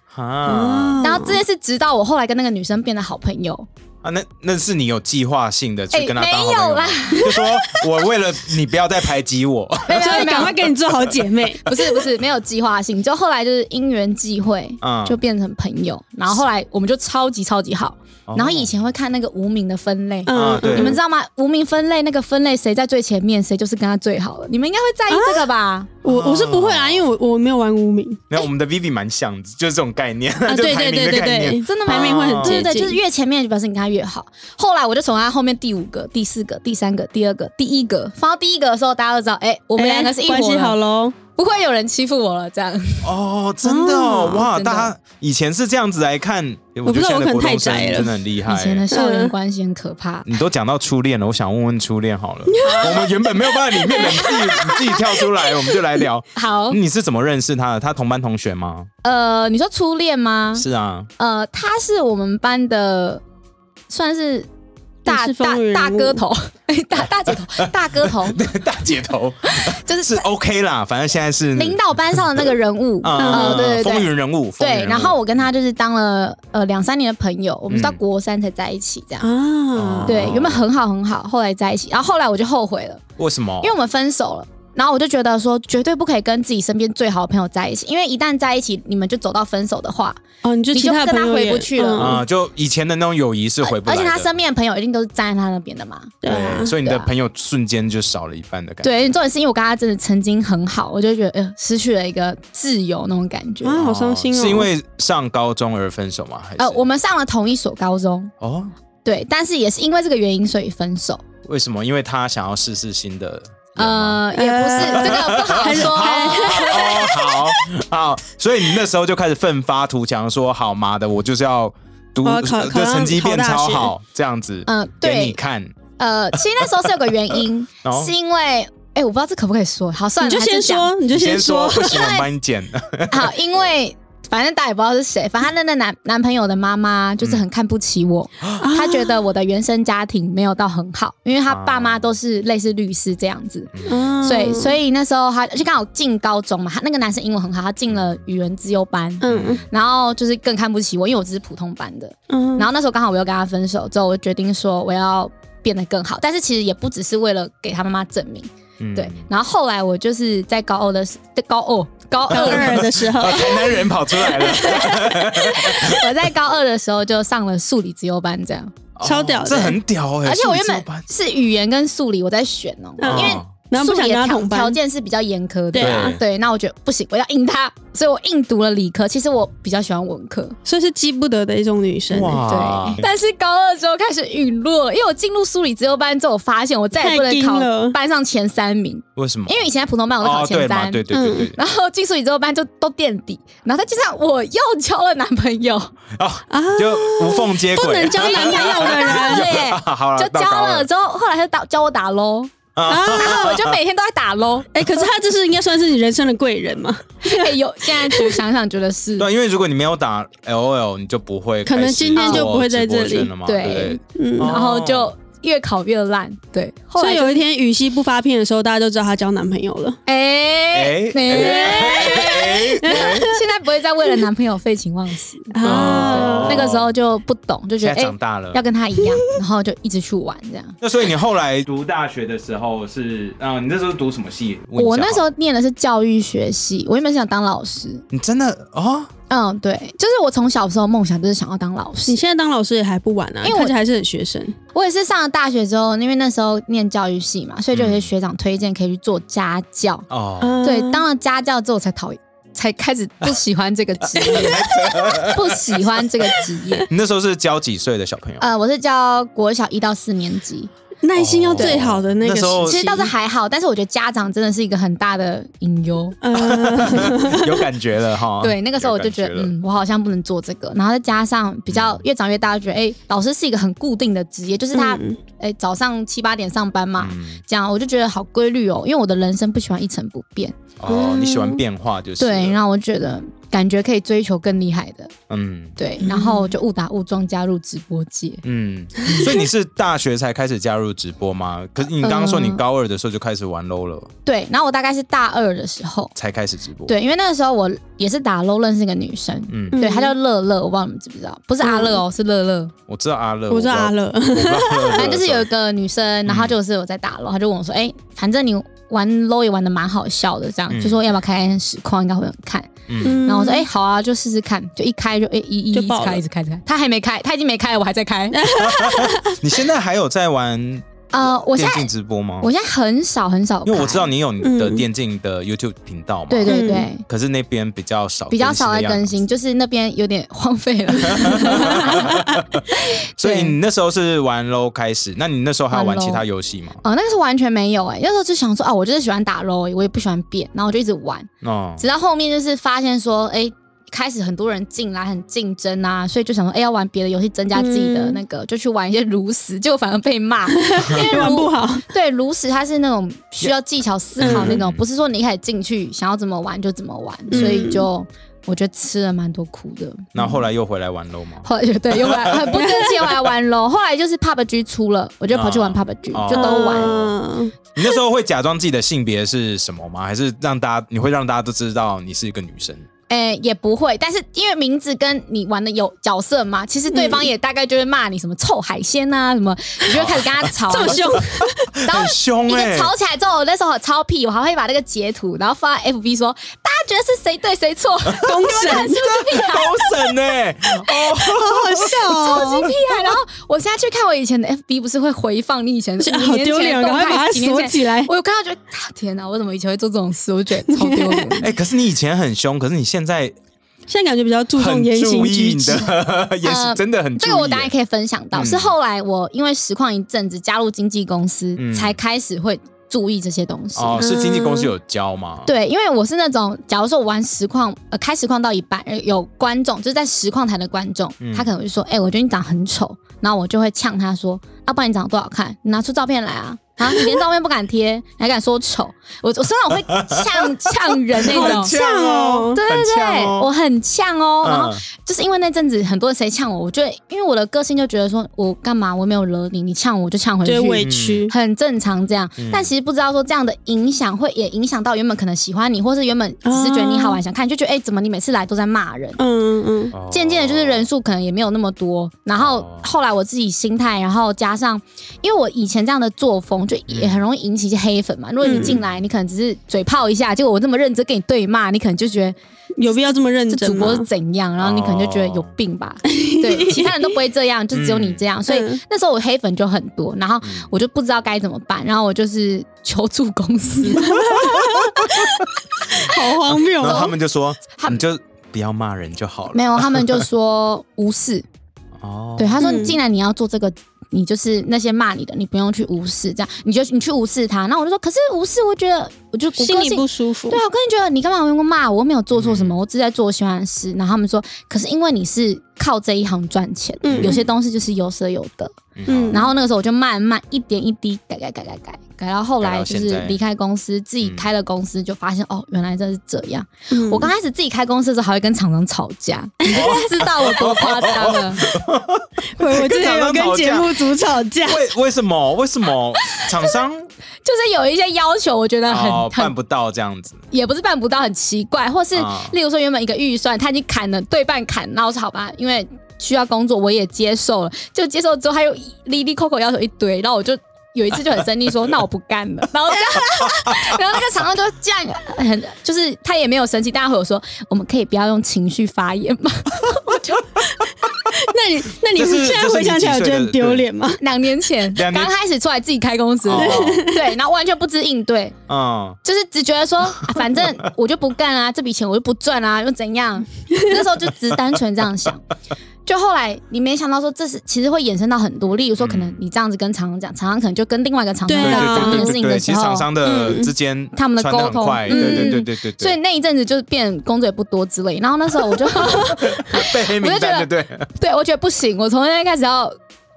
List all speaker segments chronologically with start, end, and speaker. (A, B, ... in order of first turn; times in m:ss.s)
0:00.1-0:01.1 A
0:00.5-0:01.4 B
0:01.0-0:03.7 C
0:04.0-0:11.2 A
0:05.9-0:07.8 C
0:09.8-0:10.6 C
0:10.0-0:11.8 B
0:11.6-0:25.9 C
0:14.8-0:15.2 A
0:18.3-0:18.7 A
0:20.3-0:21.0 B
0:20.3-0:21.0 A
0:25.1-0:25.5 B
0:26.0-0:28.2 B
0:26.0-0:27.1 A
0:28.3-0:32.7 A
0:30.5-0:33.0 B
0:31.6-0:40.8 C
0:39.8-0:41.2 B
0:41.4-0:43.1 C
0:43.0-0:48.8 A
0:43.6-0:44.4 B
0:44.3-0:44.9 C
0:46.8-0:48.2 B
0:48.4-0:50.3 C
0:48.9-0:49.3 B
0:50.2-0:58.9 A
0:52.5-0:53.1 B
0:52.6-0:53.1 C
0:53.7-0:55.8 B
0:53.9-0:54.8 C
0:56.3-0:56.8 C
0:59.0-1:00.7 C
1:00.6-1:01.1 A
1:01.2-1:03.2 C
1:03.9-1:04.5 C
1:05.0-1:08.6 C
1:05.1-1:06.2 B
1:07.6-1:12.4 A
1:09.5-1:10.2 C
1:11.6-1:19.3 C
1:13.0-1:15.4 A
1:13.2-1:13.6 B
1:17.7-1:18.0 A
1:19.2-1:20.3 B
1:19.7-1:20.6 A
1:20.1-1:23.0 C
1:23.2-1:23.7 A
1:23.6-1:32.2 C
1:30.4-1:32.2 B
1:32.0-1:34.3 A
1:33.6-1:37.1 C
1:36.2-1:36.8 B
1:36.2-1:39.0 A
1:38.8-1:43.8 C
1:43.6-1:44.7 B
1:43.8-1:46.8 A
1:46.6-1:48.3 C
1:48.4-1:48.7 A
1:49.0-1:51.2 C
1:51.4-1:54.2 A
1:53.8-1:57.2 C
1:54.3-1:57.6 B
1:54.8-2:05.8 A
2:02.2-2:03.9 B
2:04.7-2:05.4 C
2:06.0-2:10.9 C
2:06.3-2:06.7 A
2:07.8-2:08.1 A
2:10.2-2:12.1 B
2:11.1-2:13.3 A
2:11.8-2:12.3 C
2:13.1-2:43.6 C
2:18.6-2:19.3 B
2:21.5-2:22.1 A
2:23.7-2:24.1 A
2:23.9-2:24.8 B
2:29.2-2:29.6 B
2:29.2-2:29.7 A
2:32.3-2:32.7 B
2:38.8-2:39.2 A
2:42.3-2:46.1 A
2:42.3-2:45.3 B
2:45.0-2:48.7 C
2:49.0-2:51.0 A
2:49.0-2:49.8 B
2:50.2-3:00.6 C
2:53.0-2:54.8 B
2:53.0-2:53.5 A
2:55.7-2:56.2 B
2:55.8-2:56.2 A
3:00.6-3:02.7 B
3:02.1-3:03.0 A
3:02.5-3:15.9 C
3:07.0-3:08.0 B
3:09.2-3:09.7 A
3:10.2-3:11.6 A
3:11.1-3:11.5 B
3:16.1-3:20.9 A
3:16.5-3:19.5 B
3:18.1-3:24.7 C
3:22.8-3:23.7 A
3:22.9-3:23.6 B
3:24.8-3:27.5 B
3:27.2-3:29.3 C
3:28.0-3:28.4 B
3:29.2-3:35.1 A
3:31.6-3:33.3 B
3:32.2-3:32.5 C
3:33.4-3:37.4 C
3:34.2-3:34.6 B
3:37.0-3:40.0 B
3:40.1-3:50.8 C
3:40.7-3:43.4 A
3:41.5-3:42.3 B
3:42.8-3:43.2 B
3:45.5-3:46.7 B
3:45.6-3:46.9 A
3:47.8-3:48.6 A
3:50.8-3:55.3 A
3:54.8-3:58.0 C
3:58.1-3:59.1 A
3:59.3-4:02.2 C
4:02.1-4:04.6 B
4:03.4-4:03.8 C
4:04.7-4:10.1 C
4:07.7-4:08.1 A
4:10.1-4:10.6 A
4:10.4-4:11.0 B
4:10.6-4:16.9 C
4:14.2-4:15.2 B
4:14.3-4:15.8 A
4:16.9-4:18.4 A
4:18.4-4:20.7 C
4:21.0-4:22.8 B
4:21.2-4:23.1 A
4:21.6-4:21.8 C
4:22.6-4:26.2 C
4:26.2-4:27.7 B
4:26.4-4:29.5 A
4:28.4-4:40.6 C
4:31.7-4:32.0 A
4:34.7-4:35.2 B
4:37.0-4:37.4 A
4:40.8-4:42.6 A
4:40.9-4:41.6 B
4:42.2-4:45.1 C
4:45.3-4:45.8 A
4:45.8-4:48.4 C
4:46.0-4:46.5 B
4:48.4-4:54.1 A
4:52.0-4:52.6 C
4:54.3-4:56.1 C
4:56.2-4:56.9 A
4:56.9-5:02.7 C
4:59.5-4:59.8 A
4:59.7-5:00.1 B
5:01.6-5:02.0 B
5:02.9-5:05.5 A
5:03.5-5:05.1 B
5:05.0-5:18.4 C
5:06.3-5:06.5 A
5:10.7-5:11.0 A
5:12.9-5:13.2 A
5:13.0-5:13.7 B
5:15.7-5:16.2 B
5:18.3-5:19.4 B
5:18.6-5:20.9 A
5:21.1-5:21.9 C
5:21.4-5:22.5 A
5:22.4-5:24.1 C
5:23.7-5:29.2 A
5:24.4-5:24.8 B
5:26.3-5:27.0 C
5:26.5-5:26.9 B
5:28.3-5:33.6 C
5:31.0-5:32.6 A
5:31.5-5:31.8 B
5:33.2-5:36.8 A
5:35.7-5:36.2 C
5:36.8-6:00.3 C
5:41.4-5:41.8 A
5:47.6-5:48.2 B
5:50.5-5:51.9 B
5:54.2-5:54.6 B
5:54.2-5:54.8 A
5:57.3-5:57.9 B
6:00.2-6:02.6 A
6:01.4-6:07.0 C
6:02.5-6:02.9 B
6:05.3-6:07.2 A
6:06.3-6:07.6 B
6:07.8-6:12.9 A
6:13.1-6:21.2 C
6:16.9-6:17.3 B
6:19.9-6:22.9 A
6:20.7-6:21.7 B
6:21.8-6:30.2 C
6:28.2-6:29.0 B
6:28.4-6:32.4 A
6:31.2-6:32.8 B
6:32.1-6:41.5 C
6:36.0-6:38.1 B
6:40.7-6:41.3 B
6:41.4-6:43.4 A
6:43.9-6:45.9 B
6:44.6-6:47.7 A
6:46.4-6:54.1 C
6:48.3-6:48.7 A
6:51.6-6:52.0 A
6:53.8-6:55.5 A
6:54.0-6:54.7 B
6:55.4-7:11.7 C
7:01.2-7:01.5 A
7:09.9-7:13.5 A
7:11.2-7:12.6 B
7:12.5-7:29.2 C
7:14.4-7:14.8 A
7:20.4-7:21.3 B
7:20.8-7:21.3 A
7:22.4-7:22.7 A
7:26.4-7:27.2 B
7:29.2-7:29.9 B
7:29.9-7:30.9 A
7:30.1-7:42.4 C
7:32.4-7:32.9 A
7:36.9-7:37.2 A
7:38.4-7:38.8 B
7:38.6-7:38.9 A
7:42.8-7:44.1 B
7:43.5-7:55.3 C
7:44.6-7:45.5 A
7:46.1-7:47.0 B
7:47.7-7:48.2 A
7:48.5-7:48.8 B
7:50.4-7:50.7 A
7:54.0-7:55.4 B
7:54.4-7:55.3 A
7:55.9-7:57.1 B
7:56.5-8:00.3 A
7:57.8-7:58.0 C
7:59.5-8:01.4 C
8:02.0-8:02.6 A
8:02.4-8:18.7 C
8:02.6-8:03.0 B
8:09.6-8:10.6 B
8:12.4-8:12.8 A
8:17.0-8:17.4 B
8:17.1-8:17.4 A
8:19.0-8:19.5 A
8:19.1-8:19.5 B
8:19.3-8:31.7 C
8:22.6-8:23.4 A
8:24.2-8:24.5 A
8:26.9-8:27.3 B
8:29.7-8:34.0 A
8:32.6-8:34.9 B
8:34.6-8:37.1 A
8:36.3-8:36.7 C
8:37.4-8:39.5 C
8:38.9-8:40.4 A
8:40.5-9:00.5 C
8:42.2-8:42.5 A
8:53.4-8:54.0 A
9:01.3-9:04.2 B
9:02.1-9:03.9 A
9:04.2-9:08.6 C
9:04.9-9:05.3 A
9:06.4-9:07.1 A
9:06.6-9:07.3 B
9:08.7-9:09.2 A
9:09.2-9:15.4 C
9:16.1-9:23.1 C
9:19.0-9:19.4 A
9:21.5-9:22.4 B
9:21.6-9:26.2 A
9:23.2-9:23.7 B
9:24.1-9:33.0 C
9:25.1-9:25.6 B
9:29.1-9:31.1 A